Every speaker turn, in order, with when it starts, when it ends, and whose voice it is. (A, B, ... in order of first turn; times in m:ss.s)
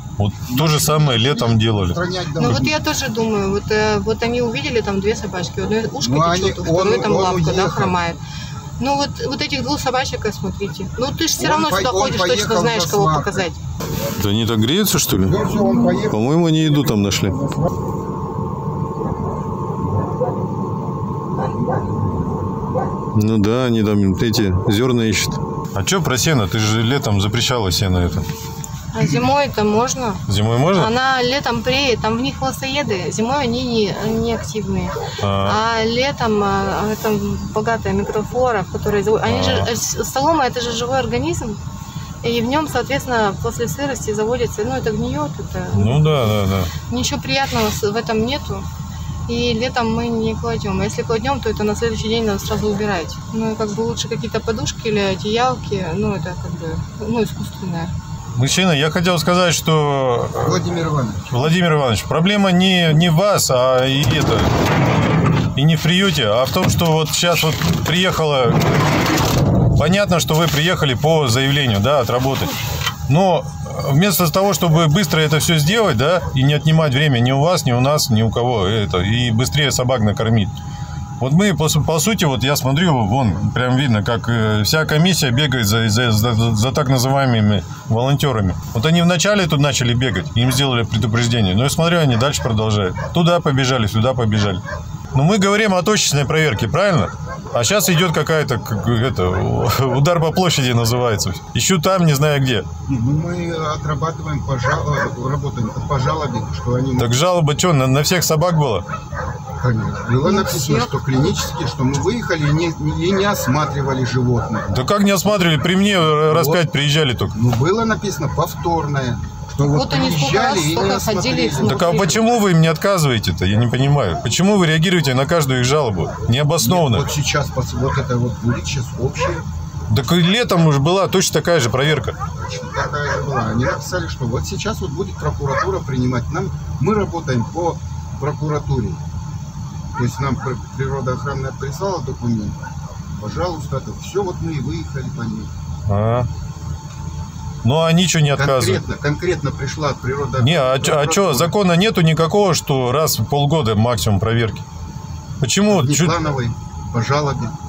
0:00.2-0:02.0 A
0:00.5-0:02.8 B
0:02.4-0:08.2 C
0:06.0-0:08.0 B
0:08.8-0:13.6 C
0:11.4-0:13.5 B
0:14.2-0:15.4 A
0:15.2-0:16.9 B
0:15.6-0:16.0 C
0:16.1-0:17.4 A
0:23.1-0:28.2 A
0:28.9-0:41.6 C
0:30.3-0:30.9 A
0:35.2-0:35.6 A
0:39.3-0:39.7 A
0:42.2-0:46.3 C
0:45.7-0:46.7 A
0:46.9-0:48.7 C
0:49.3-0:57.9 C
0:58.4-1:00.6 A
1:00.4-1:01.3 B
1:01.3-1:04.5 A
1:05.5-1:08.7 A
1:09.7-1:12.6 A
1:13.1-1:20.5 A
1:21.2-1:34.6 A
1:35.1-1:42.7 A
1:42.9-1:47.2 B
1:47.0-1:48.8 A
1:49.6-1:54.8 B
1:50.2-1:51.1 C
1:54.7-1:57.3 A
1:56.2-1:56.7 B
1:57.3-2:02.0 B
1:59.7-2:02.3 C
2:01.6-2:07.1 A
2:06.6-2:09.4 B
2:09.9-2:12.2 A
2:12.4-2:19.0 B
2:20.0-2:22.6 B
2:23.2-2:25.5 B
2:25.9-2:26.3 A
2:27.6-2:28.8 A
2:28.3-2:31.6 B
2:30.4-2:34.6 A
2:35.4-2:36.1 A
2:35.7-2:37.6 B